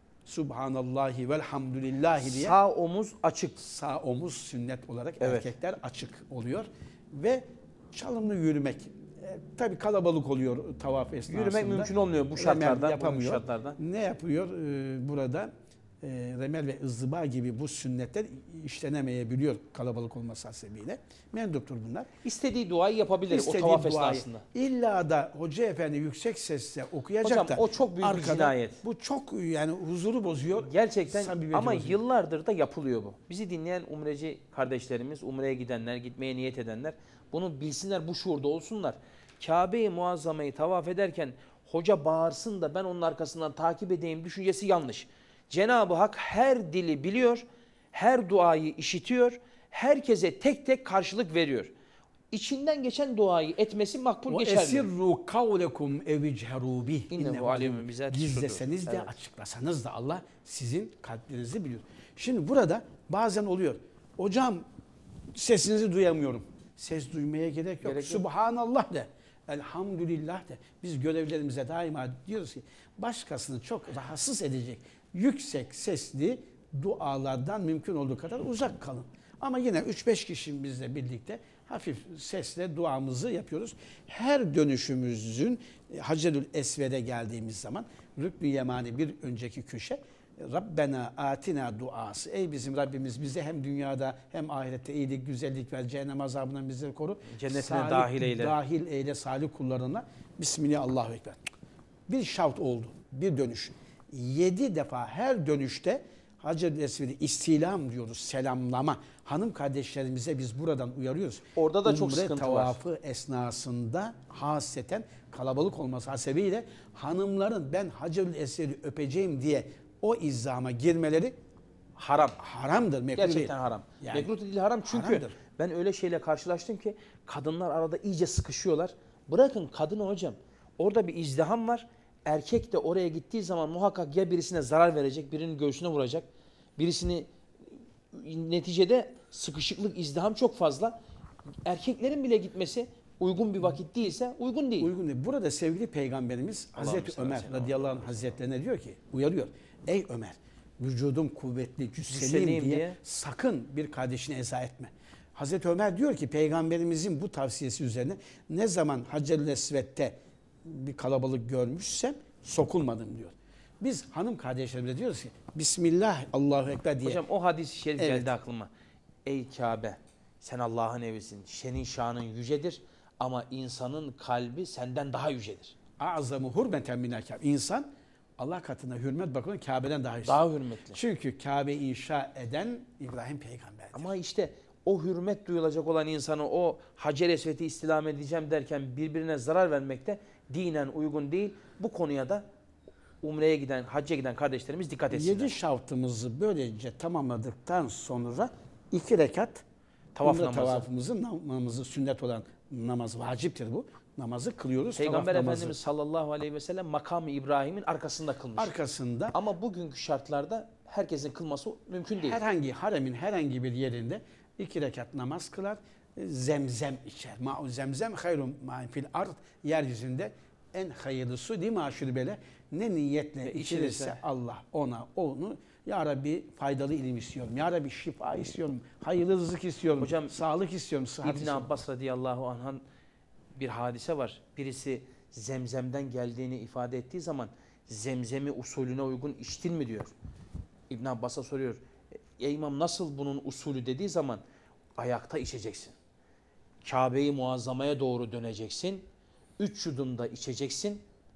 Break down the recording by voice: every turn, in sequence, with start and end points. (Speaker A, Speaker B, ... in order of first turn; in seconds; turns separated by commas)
Speaker A: 0.2-2.5, Speaker B: 2.2-3.6, Speaker A: 3.6-15.5, Speaker B: 5.2-5.5, Speaker B: 11.3-13.8, Speaker A: 16.0-22.1, Speaker B: 22.2-24.4, Speaker A: 23.3-32.0, Speaker B: 27.2-28.8, Speaker B: 30.6-51.7, Speaker B: 52.3-54.9, Speaker A: 54.3-64.7, Speaker B: 57.1-59.1, Speaker A: 65.3-101.4, Speaker B: 67.8-68.2, Speaker B: 97.3-98.5, Speaker A: 102.1-121.3, Speaker B: 111.5-112.8, Speaker B: 122.0-122.4, Speaker A: 122.4-124.3, Speaker B: 123.2-137.3, Speaker A: 124.8-125.3, Speaker B: 138.1-140.9, Speaker B: 141.7-144.9, Speaker A: 144.8-167.2, Speaker B: 146.8-147.8, Speaker B: 152.0-153.0, Speaker B: 167.0-168.7, Speaker A: 168.0-168.3, Speaker B: 169.2-175.7, Speaker A: 176.0-177.9, Speaker A: 178.4-180.4, Speaker B: 180.2-181.0, Speaker A: 180.9-184.1, Speaker B: 183.9-192.4, Speaker B: 193.2-195.6, Speaker A: 195.1-199.6, Speaker B: 200.1-200.9, Speaker A: 200.2-205.8, Speaker B: 204.9-208.7, Speaker A: 208.6-209.3, Speaker B: 209.3-212.4, Speaker A: 212.2-231.7, Speaker B: 223.4-224.2, Speaker B: 230.0-230.3, Speaker B: 231.2-232.8, Speaker B: 233.6-240.1, Speaker B: 240.9-241.8, Speaker B: 242.4-244.4, Speaker B: 245.0-245.9, Speaker B: 246.8-249.0, Speaker B: 249.6-251.0